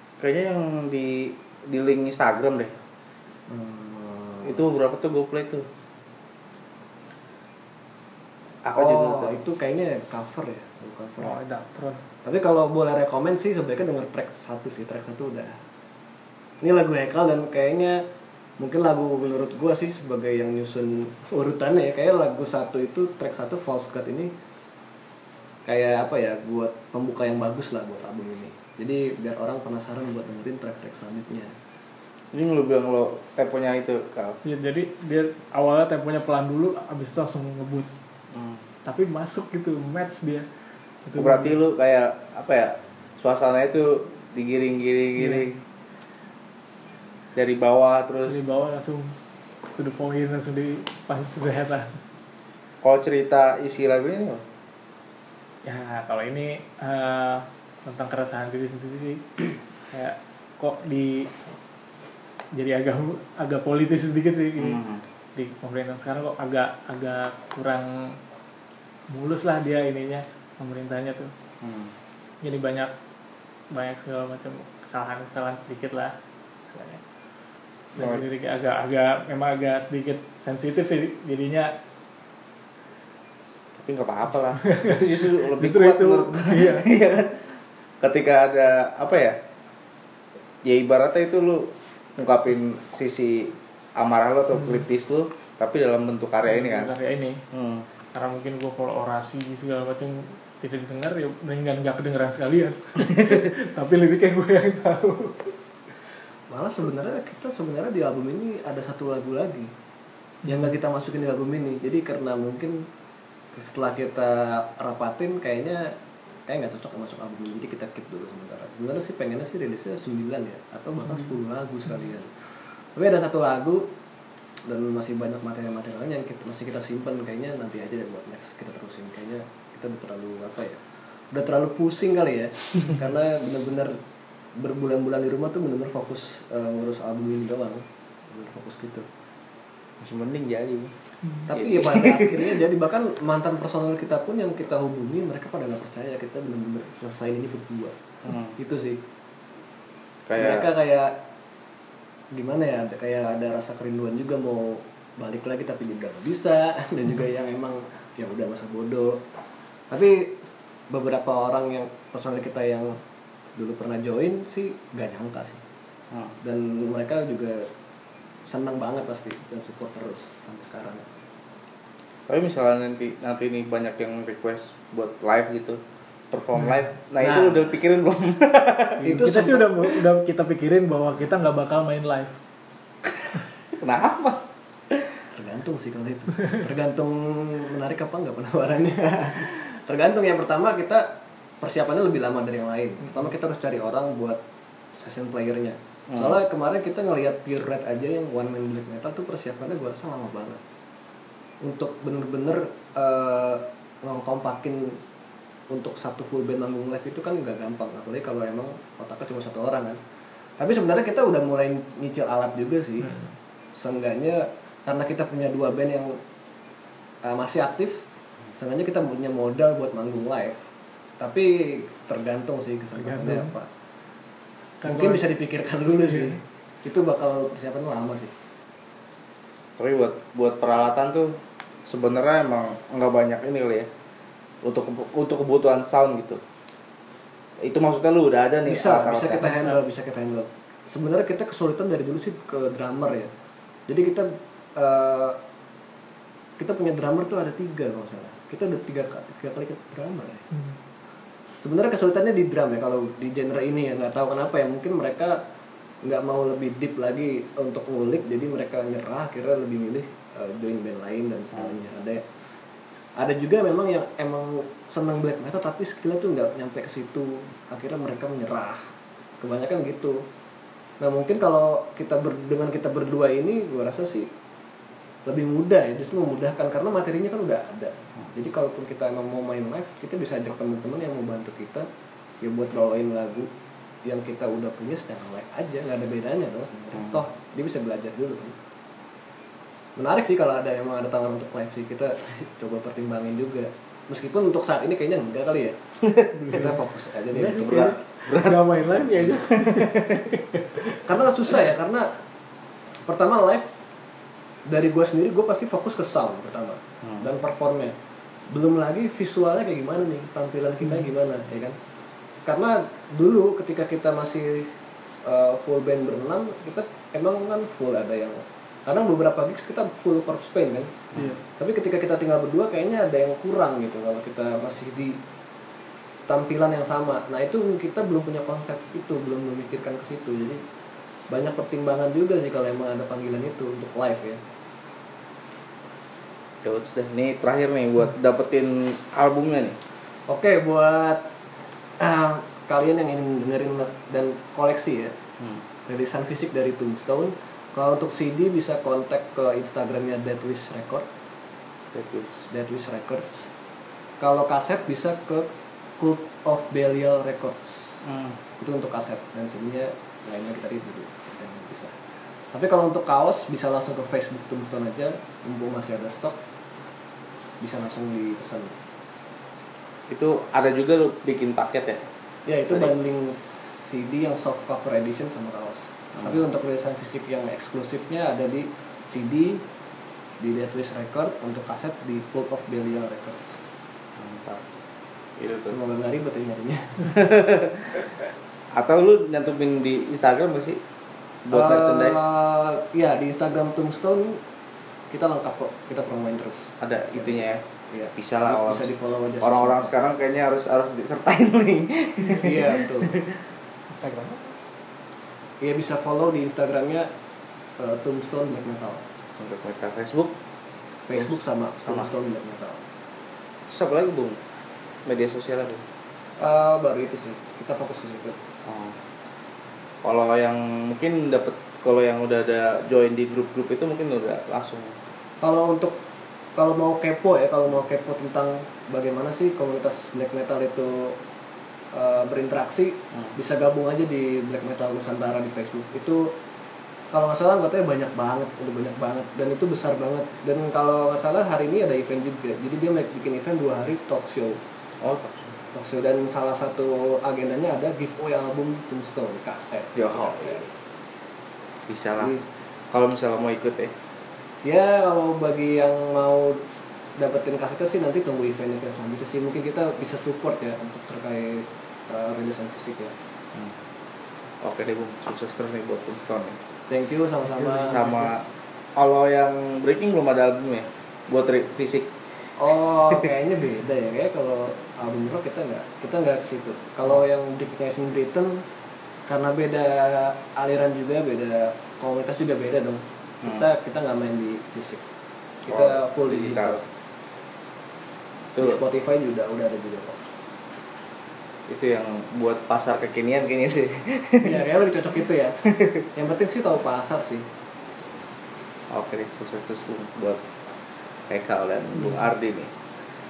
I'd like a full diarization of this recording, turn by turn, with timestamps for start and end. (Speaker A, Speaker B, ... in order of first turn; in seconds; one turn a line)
Speaker A: 0.2-2.7
Speaker B: 3.5-4.6
Speaker A: 4.4-5.7
Speaker A: 8.6-9.4
Speaker B: 8.7-11.4
Speaker C: 11.2-12.0
Speaker B: 12.2-15.5
Speaker B: 16.6-18.0
Speaker B: 18.6-24.3
Speaker B: 25.7-31.5
Speaker A: 32.3-34.4
Speaker C: 34.4-37.9
Speaker A: 38.3-38.6
Speaker C: 38.8-40.5
Speaker C: 41.0-41.6
Speaker A: 41.1-45.6
Speaker C: 45.2-45.5
Speaker A: 47.3-48.4
Speaker C: 48.3-49.2
Speaker C: 49.8-52.0
Speaker A: 52.8-54.4
Speaker C: 55.6-61.3
Speaker C: 62.5-64.8
Speaker A: 64.6-65.0
Speaker C: 65.3-68.2
Speaker C: 69.1-71.3
Speaker A: 71.6-71.9
Speaker C: 72.4-72.9
Speaker C: 73.7-76.1
Speaker C: 76.7-77.0
Speaker C: 77.9-81.7
Speaker A: 78.0-78.2
Speaker A: 83.7-89.4
Speaker C: 84.7-86.9
Speaker A: 90.6-96.9
Speaker C: 94.5-94.8
Speaker C: 96.5-97.4
Speaker A: 97.5-97.9
Speaker C: 98.1-105.5
Speaker A: 103.1-103.5
Speaker B: 106.5-109.7
Speaker B: 110.4-112.8
Speaker B: 113.5-115.9
Speaker B: 116.5-123.8
Speaker B: 124.7-130.8
Speaker B: 131.3-134.0
Speaker B: 134.6-139.1
Speaker A: 140.0-140.9
Speaker B: 141.5-147.9
Speaker A: 141.5-142.6
Speaker A: 148.2-148.6
Speaker B: 148.6-149.0
Speaker A: 150.3-150.7
Speaker B: 150.4-151.1
Speaker B: 152.3-159.2
Speaker B: 159.9-163.0
Speaker B: 163.6-165.6
Speaker B: 166.4-167.7
Speaker B: 168.5-171.1
Speaker A: 172.3-179.2
Speaker B: 177.2-177.8
Speaker C: 179.0-182.4
Speaker B: 179.0-179.7
Speaker A: 183.2-185.1
Speaker B: 185.3-191.1
Speaker B: 191.6-194.4
Speaker B: 195.0-200.6
Speaker A: 196.1-196.4
Speaker B: 201.6-205.0
Speaker B: 205.7-210.0
Speaker B: 210.6-213.1
Speaker C: 213.0-213.4
Speaker B: 213.7-216.2
Speaker B: 217.2-218.0
Speaker B: 218.6-220.6
Speaker B: 221.2-223.7
Speaker C: 223.0-223.5
Speaker C: 224.8-225.3
Speaker B: 224.8-228.3
Speaker C: 226.0-226.4
Speaker A: 229.8-233.9
Speaker A: 234.6-236.4
Speaker A: 237.6-239.6
Speaker B: 238.6-243.3
Speaker C: 239.4-239.7
Speaker B: 243.9-245.4
Speaker B: 246.6-250.4
Speaker C: 250.5-250.8
Speaker B: 251.6-255.4
Speaker B: 256.0-262.2
Speaker B: 263.2-268.8
Speaker B: 269.4-270.2
Speaker B: 271.0-274.3
Speaker B: 275.2-281.9
Speaker B: 282.4-283.5
Speaker B: 284.0-288.5
Speaker A: 286.9-287.2
Speaker B: 290.0-295.8
Speaker A: 296.0-296.6
Speaker C: 296.4-296.8
Speaker B: 296.5-297.9
Speaker C: 297.3-301.0
Speaker A: 297.6-300.3
Speaker B: 300.9-302.1
Speaker B: 303.1-303.8
Speaker B: 304.7-307.9
Speaker B: 308.5-311.8
Speaker B: 312.4-314.7
Speaker B: 315.2-321.0
Speaker A: 321.1-321.4
Speaker C: 321.1-321.4
Speaker B: 321.6-325.2
Speaker B: 326.3-330.6
Speaker B: 331.3-334.4
Speaker A: 336.6-339.8
Speaker B: 340.3-341.3
Speaker B: 342.0-345.1
Speaker B: 345.9-351.1
Speaker A: 351.9-352.5
Speaker B: 352.5-353.5
Speaker B: 354.2-355.5
Speaker B: 356.0-358.0
Speaker A: 358.0-358.4
Speaker B: 358.6-361.9
Speaker B: 362.5-366.4
Speaker B: 367.6-368.8
Speaker A: 370.1-372.0
Speaker B: 372.5-379.6
Speaker A: 376.2-376.4
Speaker B: 380.4-383.6
Speaker A: 384.1-384.6
Speaker A: 385.4-385.8
Speaker B: 385.7-387.1
Speaker A: 387.0-388.1
Speaker A: 388.7-390.8
Speaker A: 391.4-392.3
Speaker B: 391.5-394.4
Speaker B: 395.1-399.9
Speaker A: 396.8-397.6
Speaker A: 398.2-398.9
Speaker A: 399.4-403.4
Speaker B: 402.4-403.2
Speaker C: 403.9-404.5
Speaker B: 405.6-407.1
Speaker B: 407.8-409.1
Speaker A: 409.4-410.3
Speaker B: 411.1-412.8
Speaker A: 411.1-412.1
Speaker A: 413.7-414.4
Speaker A: 415.1-415.8
Speaker B: 416.4-418.4
Speaker A: 418.6-419.0
Speaker A: 420.0-425.0
Speaker B: 425.4-425.9
Speaker B: 426.6-431.2
Speaker B: 431.9-436.3
Speaker B: 437.1-444.6
Speaker A: 445.0-445.6
Speaker B: 445.7-450.7
Speaker A: 449.9-450.6
Speaker A: 451.9-452.4
Speaker B: 452.2-452.4
Speaker A: 452.9-453.9
Speaker B: 454.6-456.6
Speaker B: 457.2-463.1
Speaker A: 464.6-466.6
Speaker B: 466.9-468.1
Speaker A: 467.6-468.4
Speaker A: 468.9-472.1
Speaker B: 472.6-478.6
Speaker B: 479.3-485.0
Speaker B: 485.6-486.9
Speaker A: 485.7-486.8
Speaker A: 488.5-488.8
Speaker B: 488.6-490.2
Speaker A: 491.7-494.6
Speaker B: 494.4-495.6
Speaker A: 495.6-496.1
Speaker B: 496.1-497.5
Speaker A: 498.9-500.4
Speaker A: 501.3-502.7
Speaker C: 501.9-502.3